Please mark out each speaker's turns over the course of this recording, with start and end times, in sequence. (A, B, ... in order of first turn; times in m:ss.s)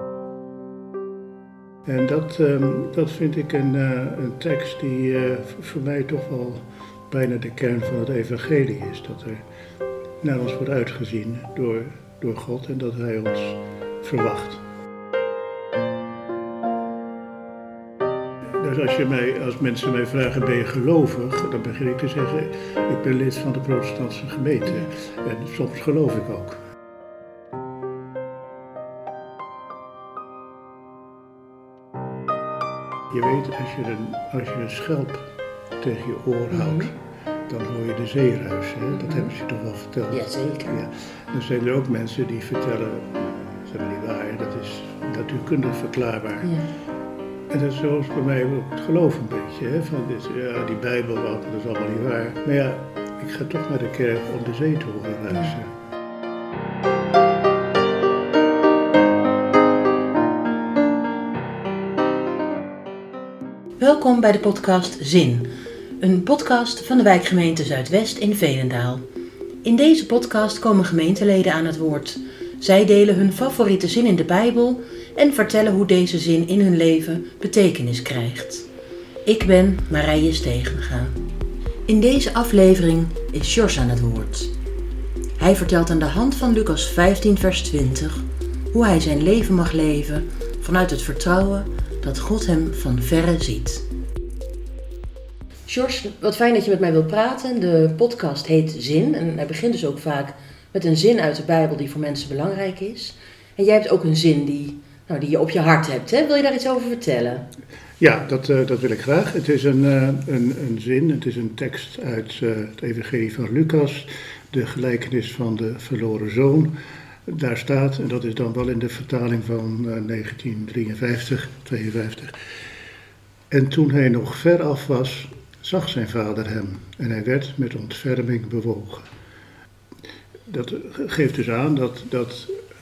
0:01.8-0:09.4 A
0:10.2-0:14.6 A
0:18.6-0:26.6 A
0:33.1-0:35.3 A
0:35.8-0:36.9 A
0:36.5-0:36.9 B
0:37.5-0:46.5 A
0:38.9-0:39.3 B
0:40.1-0:40.8 B
0:46.4-0:46.7 B
0:47.5-0:55.7 A
0:55.3-0:55.5 B
1:03.8-1:05.5 B
1:06.0-1:09.0 B
1:09.6-1:18.7 B
1:19.2-1:21.2 B
1:21.9-1:24.5 B
1:25.4-1:33.8 B
1:35.7-1:47.4 B
1:48.0-1:56.7 A
1:57.3-2:02.4 A
2:03.5-2:09.1 A
2:10.5-2:12.6 A